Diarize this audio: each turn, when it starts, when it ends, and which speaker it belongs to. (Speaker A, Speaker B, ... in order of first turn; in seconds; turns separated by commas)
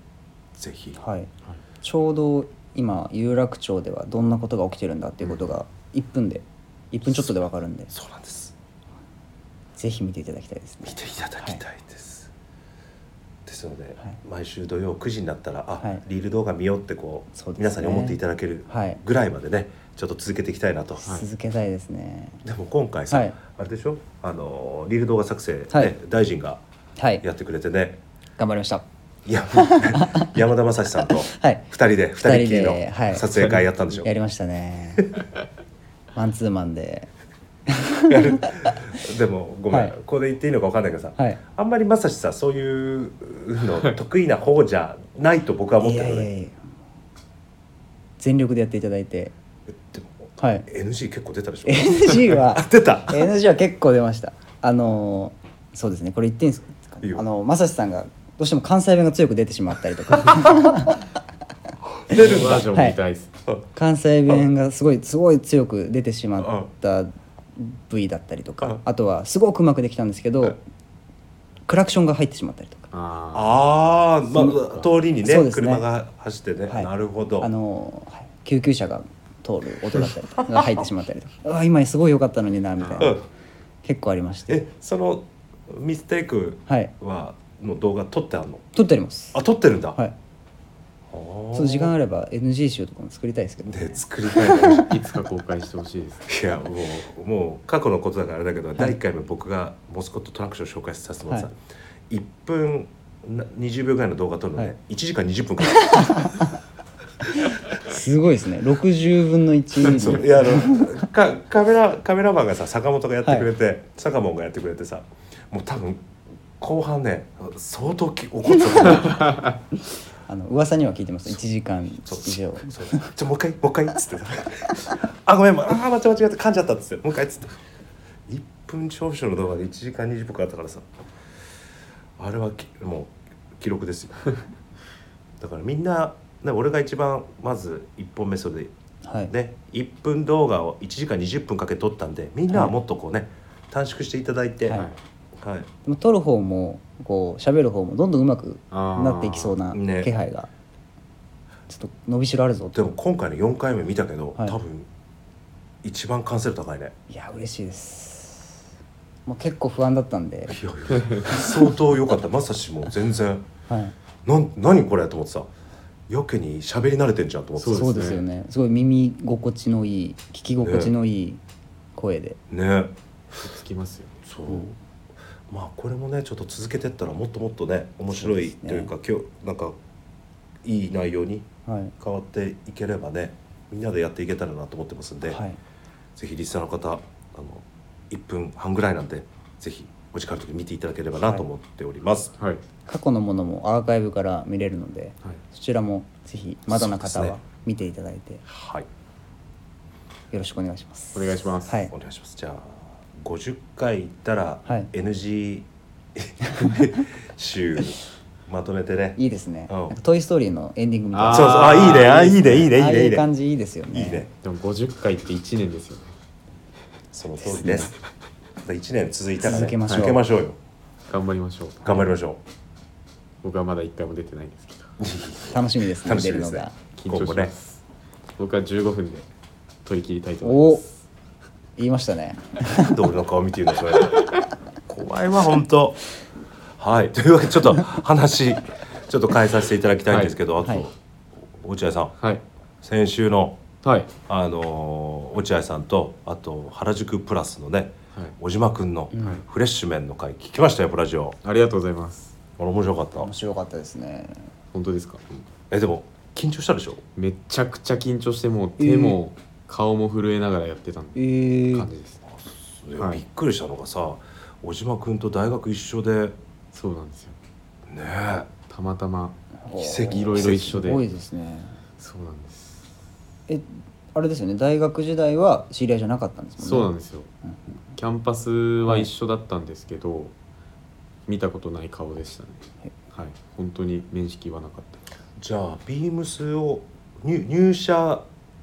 Speaker A: 0.5-1.0, Speaker B: 1.0-1.3, Speaker B: 1.8-7.9, Speaker A: 7.0-7.4, Speaker A: 7.9-8.5, Speaker B: 9.8-11.6, Speaker A: 10.8-12.3, Speaker A: 13.4-21.2, Speaker B: 17.3-19.0, Speaker B: 21.1-22.4, Speaker A: 22.4-26.6, Speaker B: 23.1-23.4, Speaker B: 27.0-27.2, Speaker A: 27.2-28.0, Speaker B: 28.4-28.8, Speaker A: 29.2-34.1, Speaker B: 29.5-30.3, Speaker B: 31.1-31.6, Speaker B: 32.2-35.1, Speaker B: 36.1-37.1, Speaker B: 37.7-38.7, Speaker A: 38.1-46.3, Speaker B: 39.7-39.9, Speaker B: 45.8-46.6, Speaker B: 48.2-49.3, Speaker A: 49.9-53.3, Speaker B: 50.4-50.7, Speaker B: 51.6-61.1, Speaker A: 62.0-62.7, Speaker B: 62.1-63.0, Speaker C: 62.1-63.3, Speaker B: 63.7-70.6, Speaker A: 66.4-66.7, Speaker B: 71.7-72.9, Speaker C: 72.9-73.5, Speaker A: 73.3-77.5, Speaker B: 74.3-74.6, Speaker B: 75.2-75.8, Speaker B: 76.7-83.2, Speaker C: 82.8-83.1, Speaker B: 83.8-84.6, Speaker A: 84.5-88.7, Speaker B: 88.7-89.4, Speaker A: 89.3-90.0, Speaker A: 91.1-91.9, Speaker B: 91.5-94.9, Speaker A: 93.7-94.9, Speaker C: 94.4-96.3, Speaker A: 96.3-101.5, Speaker A: 102.1-106.3, Speaker B: 105.7-106.5, Speaker B: 107.4-111.0, Speaker A: 109.8-116.1, Speaker A: 116.6-119.4, Speaker B: 118.7-119.1, Speaker B: 120.3-123.1, Speaker A: 122.0-127.6, Speaker A: 128.3-130.9, Speaker A: 132.2-134.3, Speaker A: 135.4-138.7, Speaker B: 139.0-139.3, Speaker A: 139.3-144.8, Speaker B: 142.5-142.7, Speaker A: 145.4-145.7, Speaker B: 145.8-150.5, Speaker C: 148.7-149.6, Speaker A: 149.7-150.1, Speaker B: 151.7-152.8, Speaker A: 152.7-154.9, Speaker A: 155.8-156.9, Speaker B: 157.1-158.6, Speaker B: 159.2-160.6, Speaker A: 160.5-163.5, Speaker B: 163.7-163.9, Speaker A: 164.2-165.5, Speaker A: 166.1-168.2, Speaker C: 167.6-168.2, Speaker B: 167.7-171.4, Speaker A: 170.6-170.9, Speaker B: 171.9-172.4, Speaker A: 172.5-172.9, Speaker C: 173.4-174.2, Speaker A: 174.2-174.8, Speaker A: 175.5-179.8, Speaker B: 178.1-178.9, Speaker A: 180.6-185.4, Speaker B: 181.7-181.9, Speaker B: 185.3-185.6, Speaker A: 186.2-192.3, Speaker B: 191.2-191.4, Speaker B: 192.8-198.4, Speaker A: 196.7-197.4, Speaker A: 198.5-198.9, Speaker B: 200.3-201.9, Speaker C: 201.1-201.9, Speaker A: 201.9-209.9, Speaker B: 206.6-206.9, Speaker B: 209.2-214.3, Speaker C: 211.1-212.7, Speaker A: 211.3-213.3, Speaker A: 213.9-214.3, Speaker C: 214.4-216.1, Speaker A: 217.1-218.0, Speaker B: 217.4-217.9, Speaker A: 218.6-220.6, Speaker B: 219.4-220.2, Speaker C: 219.9-220.2, Speaker C: 221.1-222.1, Speaker A: 221.8-222.4, Speaker C: 223.4-224.9, Speaker A: 225.0-227.5, Speaker B: 225.5-226.7, Speaker C: 226.9-227.8, Speaker C: 228.4-229.3, Speaker C: 229.8-231.0, Speaker B: 230.4-230.8, Speaker B: 231.8-233.0, Speaker A: 232.7-234.3, Speaker A: 234.9-236.0, Speaker A: 236.8-242.1, Speaker C: 240.1-240.3, Speaker A: 242.8-243.6, Speaker C: 243.8-244.1, Speaker A: 244.3-251.4, Speaker B: 249.1-249.4, Speaker C: 251.4-252.3, Speaker A: 252.6-253.3, Speaker B: 253.2-254.5, Speaker C: 254.7-255.2, Speaker A: 255.7-257.0, Speaker C: 257.1-262.2, Speaker B: 258.8-259.2, Speaker B: 261.1-261.9, Speaker A: 262.3-266.4, Speaker C: 266.7-267.4, Speaker A: 267.9-268.5, Speaker C: 268.7-269.4, Speaker B: 269.6-271.8, Speaker A: 269.7-270.8, Speaker C: 270.0-271.0, Speaker C: 272.0-272.8, Speaker B: 273.5-276.9, Speaker C: 276.6-277.3, Speaker C: 277.9-280.3, Speaker C: 281.3-285.0, Speaker A: 285.4-288.2